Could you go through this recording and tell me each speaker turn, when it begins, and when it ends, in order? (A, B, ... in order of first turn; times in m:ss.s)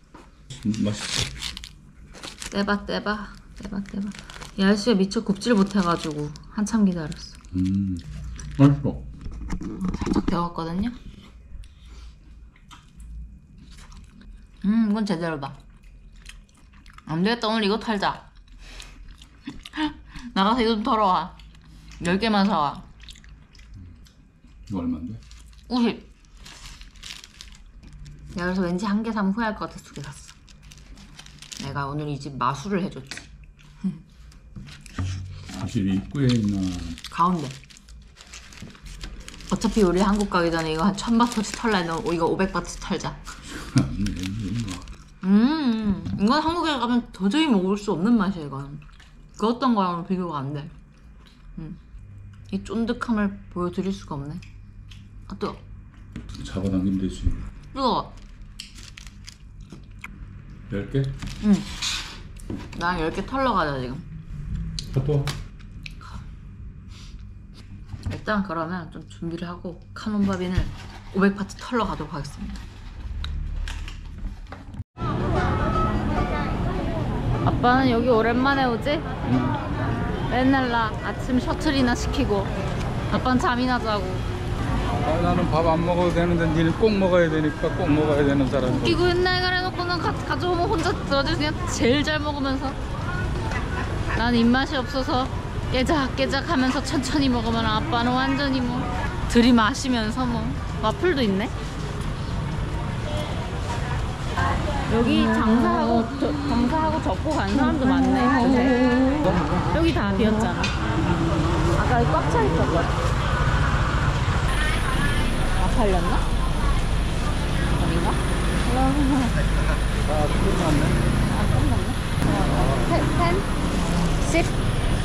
0:00.5-0:01.3 A
0:02.5-0:07.4 B
0:07.5-0:08.0 A
0:08.6-0:09.0 A
0:09.8-0:11.0 B
0:14.6-0:15.6 B
0:17.1-0:18.3 B
0:19.8-0:21.4 B
0:22.0-0:22.9 B
0:24.7-0:25.2 A
0:25.7-0:26.1 B
0:28.3-0:30.4 B
0:31.6-0:33.3 B
0:35.5-0:37.0 A
0:37.1-0:37.6 B
0:39.5-0:43.2 B
0:43.5-0:44.9 A
0:45.2-0:48.8 B
0:49.4-0:50.7 B
0:52.5-0:54.4 B
0:55.3-0:55.6 B
0:56.3-0:57.4 A
0:57.7-0:58.1 B
1:00.7-1:01.1 A
1:01.4-1:01.7 B
1:02.7-1:04.0 B
1:04.9-1:05.3 A
1:08.1-1:12.6 B
1:17.4-1:19.1 B
1:19.2-1:19.6 A
1:20.3-1:22.5 B
1:23.1-1:24.2 B
1:24.9-1:29.0 A
1:28.6-1:32.8 B
1:34.2-1:41.5 B
1:44.9-1:49.2 B
1:49.2-1:49.4 A
1:49.7-1:50.7 B
1:51.8-1:52.9 B
1:55.6-1:56.2 B
1:57.8-1:59.4 B
2:00.0-2:01.0 A
2:01.3-2:04.5 B